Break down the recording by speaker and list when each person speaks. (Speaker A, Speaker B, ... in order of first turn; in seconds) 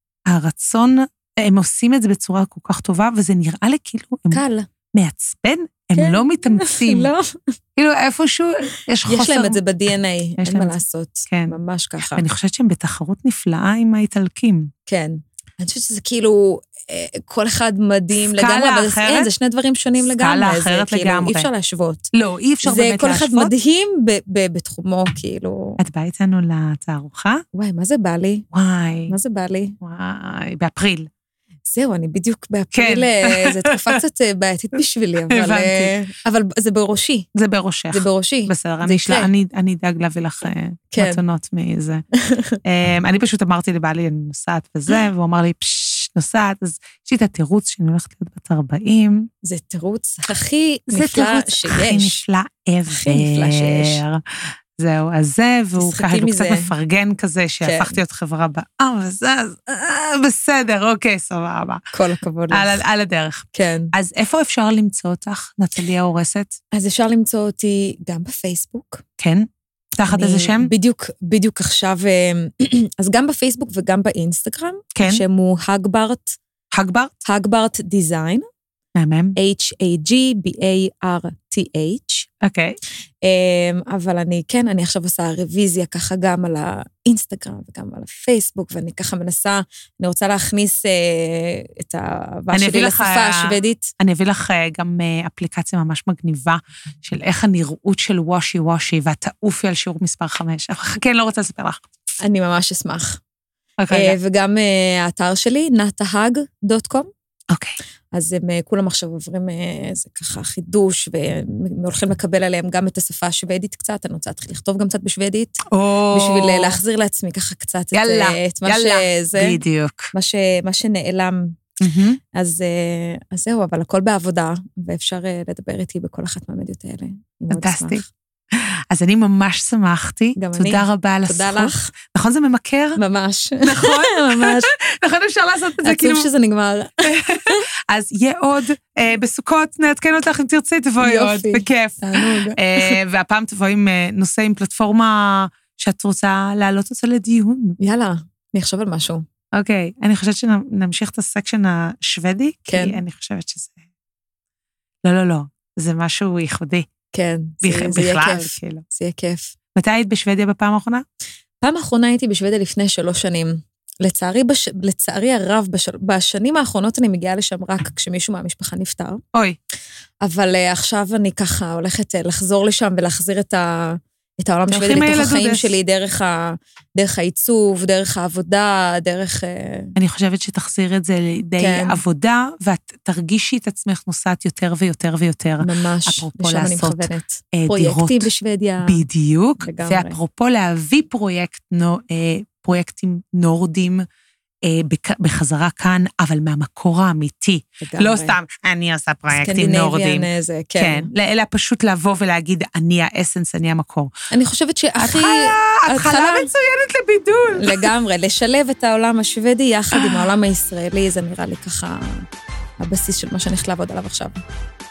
Speaker A: 0.3-4.4, 4.9-7.1, 7.8-9.6, 10.4-10.8, 11.3-14.7, 18.2-19.3, 20.1-21.5, 22.1-23.5, 25.8-27.4, 28.5-29.1, 29.8-31.1, 32.7-34.0, 35.3-35.9, 37.3-42.0, 42.6-49.3, 50.9-61.8, 62.5-66.6, 69.2-70.7, 74.9-75.2, 76.7-77.1, 79.0-79.3, 82.4-82.8, 92.5-101.8, 103.8-104.2, 107.5-107.8, 115.7-116.8, 117.9-120.1, 121.8-122.2, 127.5-133.0, 133.6-136.3, 137.1-147.8, 149.5-153.8, 155.0-156.9, 157.6-158.8, 159.8-161.0, 174.7-175.8, 179.9-188.3, 188.8-194.1, 194.7-204.1, 205.0-207.9, 209.9-210.2
Speaker B: 4.3-4.7, 6.0-7.5, 9.1-12.2, 14.9-22.1, 22.6-25.8, 27.5-28.5, 29.1-29.8, 31.6-37.3, 37.9-39.3, 40.9-41.2, 42.1-42.6, 49.4-52.2, 52.9-54.0, 55.8-56.7, 57.6-58.0, 61.9-62.8, 63.5-63.9, 66.7-69.0, 70.1-76.4, 77.2-78.5, 79.3-82.3, 83.2-93.9, 102.2-103.2, 103.9-107.1, 108.1-119.6, 120.1-121.6, 122.3-128.1, 130.4-131.9, 133.0-134.7, 135.8-137.6, 141.0-142.9, 147.8-149.2, 152.7-153.0, 157.1-159.5, 161.6-169.2, 170.2-179.9, 181.6-182.0, 185.6-189.0, 189.6-190.2, 197.8-198.3, 199.3-201.1, 204.3-206.5, 207.5-212.2, 212.8-214.4